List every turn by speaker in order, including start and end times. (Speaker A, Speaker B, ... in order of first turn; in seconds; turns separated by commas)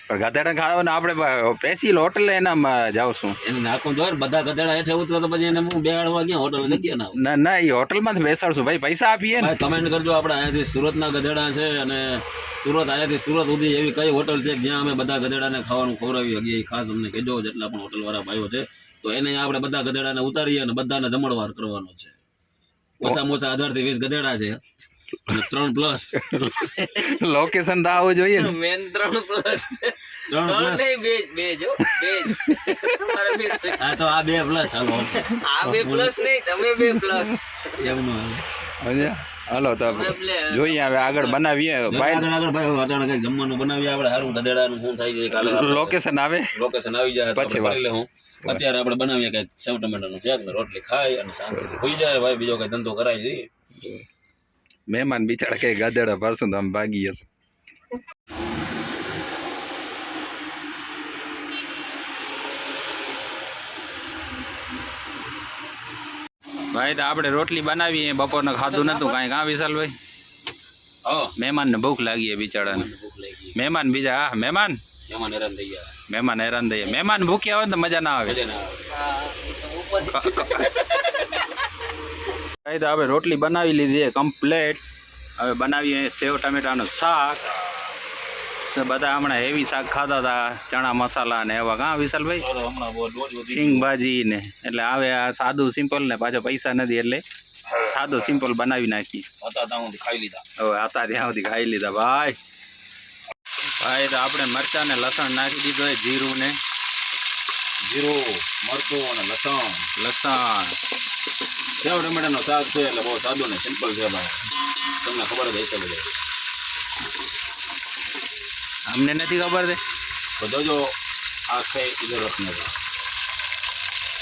Speaker A: 0.1-3.4, Speaker B: 3.4-7.2, Speaker A: 6.7-9.6, Speaker B: 9.3-22.2, Speaker B: 23.0-24.6, Speaker B: 25.3-26.2, Speaker A: 26.1-28.6, Speaker C: 28.3-33.9, Speaker B: 30.3-31.1, Speaker A: 32.2-32.5, Speaker B: 33.8-36.2, Speaker C: 35.3-37.7, Speaker B: 37.8-38.5, Speaker A: 38.8-42.3, Speaker C: 39.8-41.5, Speaker B: 41.9-46.0, Speaker A: 45.4-46.5, Speaker B: 46.5-53.5, Speaker A: 47.3-47.8, Speaker A: 54.9-57.3, Speaker A: 66.7-69.9, Speaker B: 68.6-69.2, Speaker B: 71.0-71.3, Speaker A: 71.4-72.9, Speaker B: 72.6-73.6, Speaker A: 73.5-74.8, Speaker B: 75.1-75.9, Speaker A: 76.1-78.4, Speaker B: 78.2-78.9, Speaker C: 78.9-81.4, Speaker A: 80.0-80.8, Speaker A: 82.7-84.8, Speaker A: 85.4-87.4, Speaker A: 88.7-92.5, Speaker B: 92.4-93.9, Speaker A: 93.5-97.2, Speaker A: 97.8-99.2, Speaker B: 99.4-100.5, Speaker A: 100.6-102.4, Speaker A: 103.7-106.6, Speaker B: 107.8-109.9, Speaker A: 110.0-110.8, Speaker B: 111.8-114.4, Speaker B: 115.0-116.2, Speaker A: 118.9-119.8, Speaker B: 120.4-120.9, Speaker B: 121.5-122.7